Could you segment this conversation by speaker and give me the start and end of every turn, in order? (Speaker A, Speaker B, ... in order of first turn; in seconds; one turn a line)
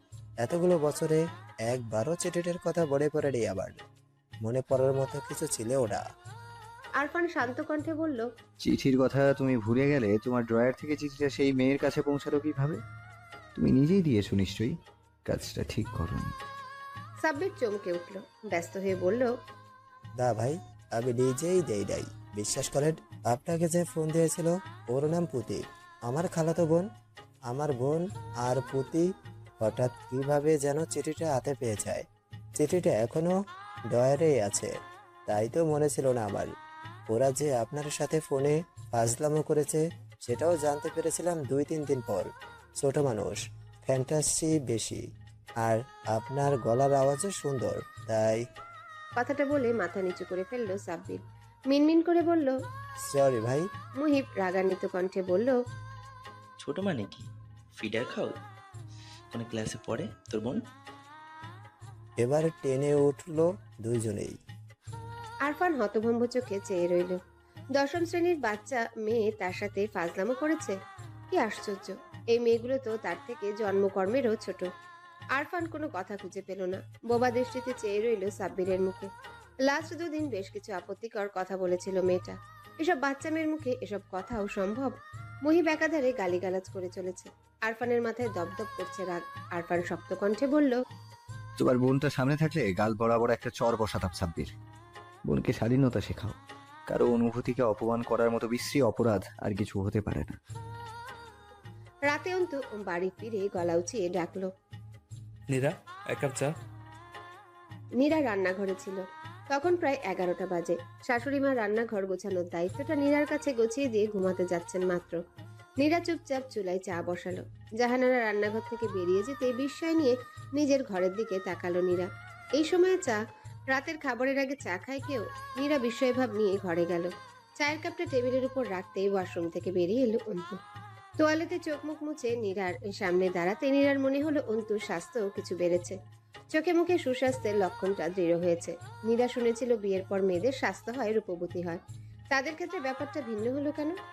Speaker A: 0.4-3.8
Speaker A: 4.4-6.0
Speaker B: 7.0-8.3
Speaker C: 8.6-12.8
Speaker C: 13.6-14.7
Speaker C: 15.3-16.4
Speaker B: 17.2-19.3
Speaker A: 20.2-26.9
Speaker A: 27.5-29.1
Speaker A: 29.6-32.0
Speaker A: 32.6-33.4
Speaker A: 33.9-34.7
Speaker A: 35.3-36.5
Speaker A: 37.1-45.0
Speaker A: 45.6-48.5
Speaker B: 49.2-52.6
Speaker A: 53.1-53.7
Speaker B: 54.0-55.6
Speaker D: 56.6-58.4
Speaker D: 59.3-60.6
Speaker A: 62.2-64.4
Speaker B: 65.5-67.2
Speaker B: 67.8-70.8
Speaker B: 71.3-74.7
Speaker B: 75.4-79.1
Speaker B: 79.7-90.8
Speaker C: 91.6-94.5
Speaker C: 95.3-100.4
Speaker B: 102.1-104.5
Speaker B: 108.0-115.2
Speaker B: 115.8-122.1
Speaker B: 122.6-123.2
Speaker B: 123.7-130.6
Speaker B: 131.2-136.0
Speaker B: 136.5-141.8
Speaker B: 142.3-144.0